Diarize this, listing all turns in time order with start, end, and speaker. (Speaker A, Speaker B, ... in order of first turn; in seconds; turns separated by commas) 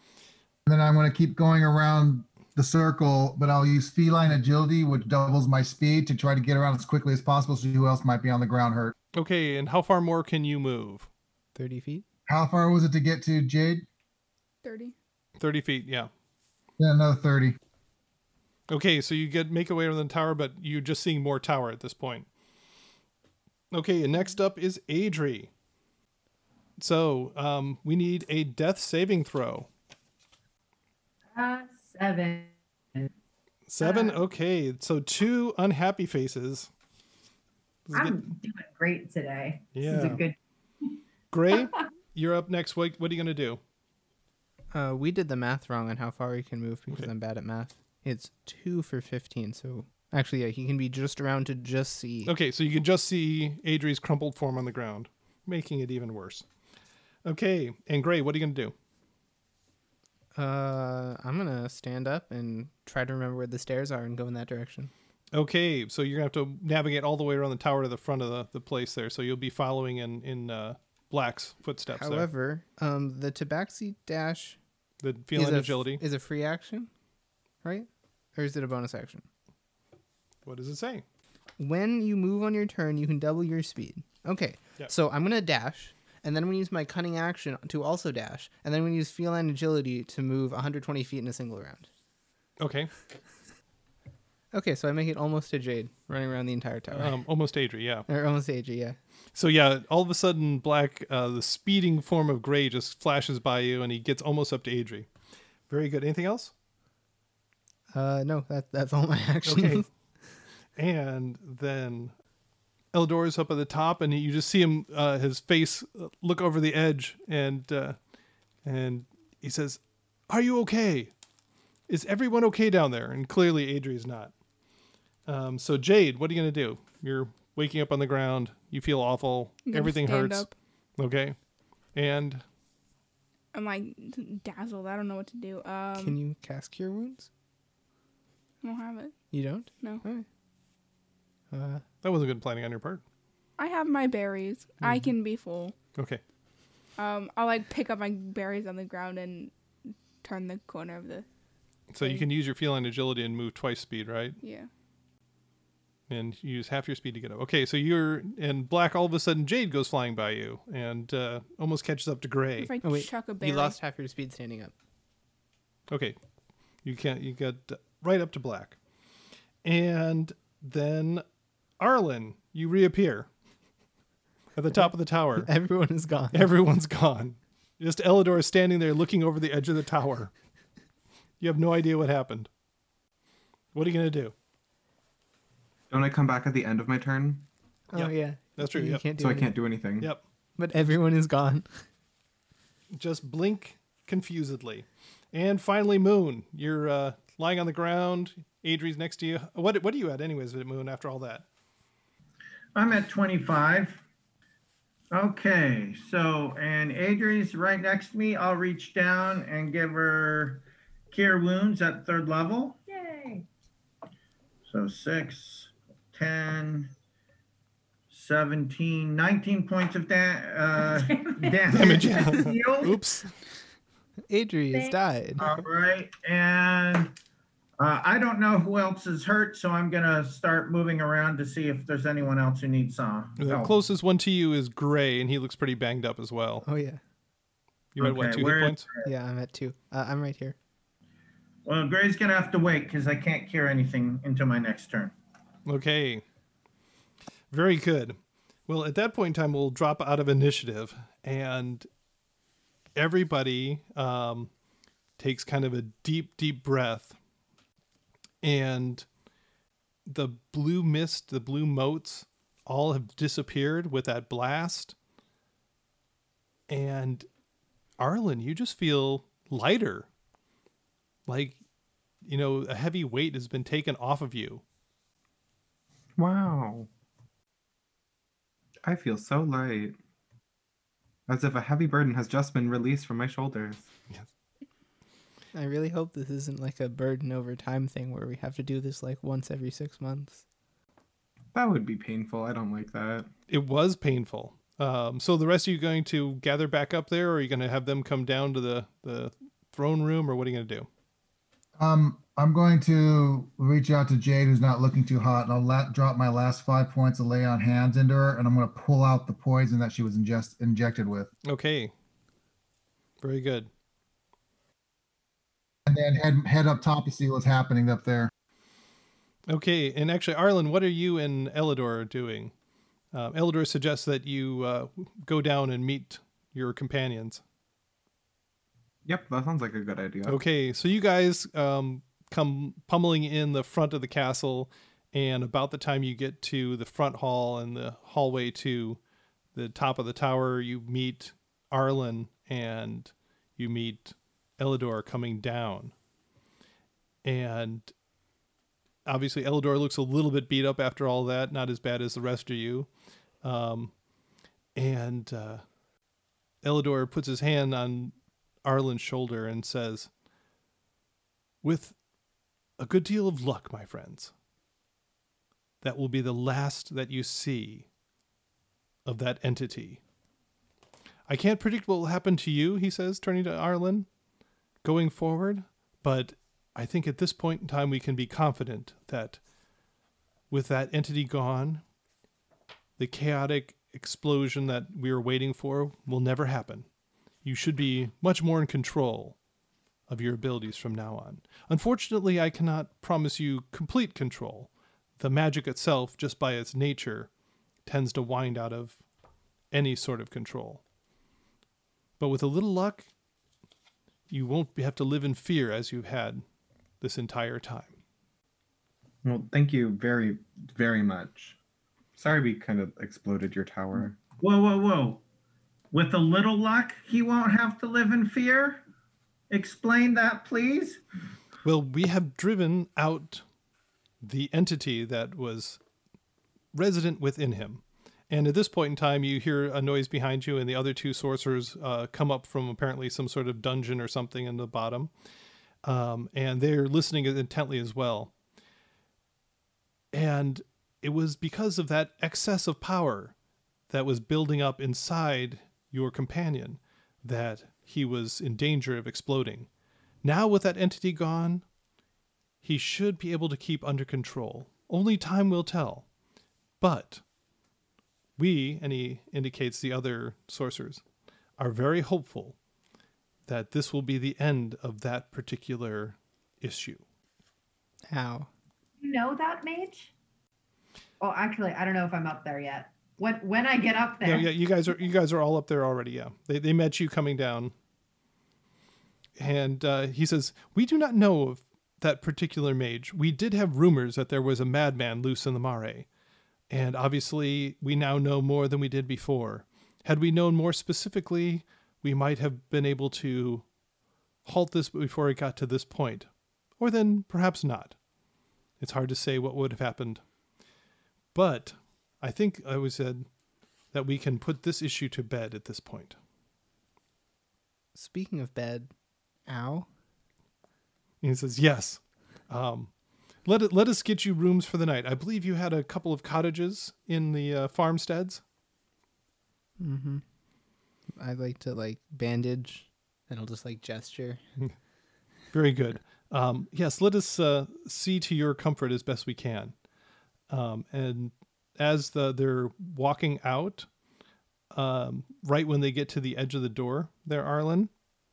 Speaker A: 0.7-8.9, Speaker B: 9.2-11.1, Speaker C: 11.6-12.1, Speaker A: 12.3-13.8, Speaker D: 14.6-14.9, Speaker B: 15.4-16.1, Speaker A: 16.8-17.6, Speaker B: 18.7-22.3, Speaker B: 23.7-25.5, Speaker B: 26.8-29.7, Speaker E: 31.4-33.1, Speaker B: 33.7-36.7, Speaker E: 33.8-34.2, Speaker B: 37.9-38.2, Speaker E: 37.9-40.4, Speaker B: 39.7-40.2, Speaker B: 41.3-43.6, Speaker C: 44.7-52.3, Speaker B: 52.3-56.5, Speaker B: 57.2-58.7, Speaker C: 60.4-64.9, Speaker B: 65.3-72.3, Speaker C: 71.9-74.6, Speaker B: 75.0-76.0, Speaker C: 75.3-76.9, Speaker C: 77.6-79.2, Speaker B: 80.5-81.0, Speaker C: 81.6-91.9, Speaker B: 92.6-92.9, Speaker C: 94.5-97.2, Speaker B: 96.9-98.1, Speaker C: 98.1-99.0, Speaker B: 99.3-105.1, Speaker B: 105.7-106.5, Speaker C: 107.9-109.9, Speaker B: 109.5-109.8, Speaker B: 110.8-112.1, Speaker B: 112.9-118.0, Speaker B: 118.7-121.1, Speaker B: 121.9-124.3, Speaker B: 125.3-130.5, Speaker D: 129.7-130.5, Speaker B: 131.0-131.4, Speaker B: 131.9-132.4, Speaker D: 133.5-136.2, Speaker C: 136.0-137.3, Speaker D: 138.6-139.2, Speaker C: 139.3-140.2, Speaker D: 139.8-140.1, Speaker C: 141.5-141.8, Speaker B: 142.0-143.0, Speaker D: 143.6-145.8, Speaker C: 144.8-145.1, Speaker D: 147.0-149.5, Speaker D: 150.2-151.3, Speaker B: 151.9-154.4, Speaker D: 154.4-154.7, Speaker B: 156.1-162.7, Speaker D: 162.6-163.8, Speaker C: 162.8-164.7, Speaker B: 165.9-166.2, Speaker B: 166.8-168.8, Speaker B: 169.6-171.2, Speaker B: 171.8-173.3, Speaker B: 174.6-175.5, Speaker C: 174.7-176.5, Speaker B: 176.3-180.3, Speaker B: 181.4-182.5, Speaker B: 183.8-184.3, Speaker F: 185.9-187.5, Speaker C: 187.9-189.5, Speaker B: 187.9-189.1, Speaker F: 189.2-190.1, Speaker C: 190.6-191.8, Speaker B: 192.9-201.4, Speaker G: 202.8-204.0, Speaker G: 205.1-212.8, Speaker E: 212.9-213.5, Speaker G: 214.7-216.9, Speaker G: 218.1-223.0, Speaker E: 220.8-221.9, Speaker B: 221.7-223.3, Speaker C: 224.3-225.4, Speaker G: 225.4-227.1, Speaker G: 227.8-233.7, Speaker B: 233.4-236.7, Speaker C: 236.6-237.0, Speaker B: 238.0-238.9, Speaker G: 238.0-239.1, Speaker C: 239.1-240.6, Speaker G: 241.7-245.1, Speaker B: 245.7-246.2, Speaker B: 247.5-251.9, Speaker B: 253.0-254.5, Speaker B: 255.2-257.2, Speaker B: 258.4-259.1, Speaker B: 260.1-264.9, Speaker B: 266.7-267.3, Speaker B: 268.0-270.1, Speaker B: 271.3-271.6, Speaker B: 272.3-274.6, Speaker F: 276.2-276.9, Speaker F: 278.9-280.0, Speaker F: 281.3-283.9, Speaker C: 285.5-290.4, Speaker F: 291.5-293.3, Speaker B: 293.5-300.9, Speaker A: 301.8-311.3, Speaker B: 311.5-311.9, Speaker B: 313.2-313.7, Speaker A: 315.9-318.3, Speaker B: 319.5-322.5, Speaker B: 323.1-327.4, Speaker F: 329.1-330.4, Speaker B: 330.3-339.0, Speaker B: 339.5-345.9, Speaker B: 347.2-347.9, Speaker B: 349.1-352.9, Speaker B: 353.4-353.9, Speaker B: 354.8-355.6, Speaker B: 356.6-360.1, Speaker B: 361.6-361.9, Speaker B: 362.8-364.3, Speaker B: 365.8-367.9, Speaker B: 369.1-370.0, Speaker B: 371.3-374.1, Speaker B: 374.8-379.4, Speaker B: 380.5-381.8, Speaker B: 383.0-386.9, Speaker B: 387.4-389.4, Speaker B: 390.1-397.3, Speaker B: 397.9-399.0, Speaker B: 399.7-400.8, Speaker B: 402.2-403.1, Speaker B: 404.3-406.4, Speaker B: 407.0-407.9, Speaker F: 409.2-411.6, Speaker F: 412.2-414.2, Speaker G: 414.4-415.2, Speaker G: 415.9-418.8, Speaker G: 419.5-421.0, Speaker B: 421.6-423.4, Speaker B: 424.2-425.8, Speaker B: 426.7-435.1, Speaker B: 435.8-438.3, Speaker B: 440.1-443.4, Speaker B: 443.9-449.7, Speaker B: 450.2-451.6, Speaker B: 452.6-456.1, Speaker B: 456.8-457.2, Speaker B: 458.4-461.0, Speaker B: 461.6-462.6, Speaker B: 463.5-467.0, Speaker C: 468.1-468.5, Speaker E: 469.0-470.1, Speaker E: 471.2-474.5, Speaker B: 474.2-477.7, Speaker B: 479.4-486.1, Speaker B: 486.7-493.6, Speaker B: 494.4-496.3, Speaker B: 496.8-498.0, Speaker B: 498.8-500.2, Speaker B: 501.3-503.3, Speaker B: 503.9-506.2, Speaker C: 507.9-508.9, Speaker C: 509.5-509.9, Speaker B: 511.2-512.9, Speaker B: 513.5-518.4, Speaker C: 519.8-520.2, Speaker C: 521.2-524.4, Speaker B: 525.5-529.7, Speaker B: 530.5-533.9, Speaker B: 534.7-537.9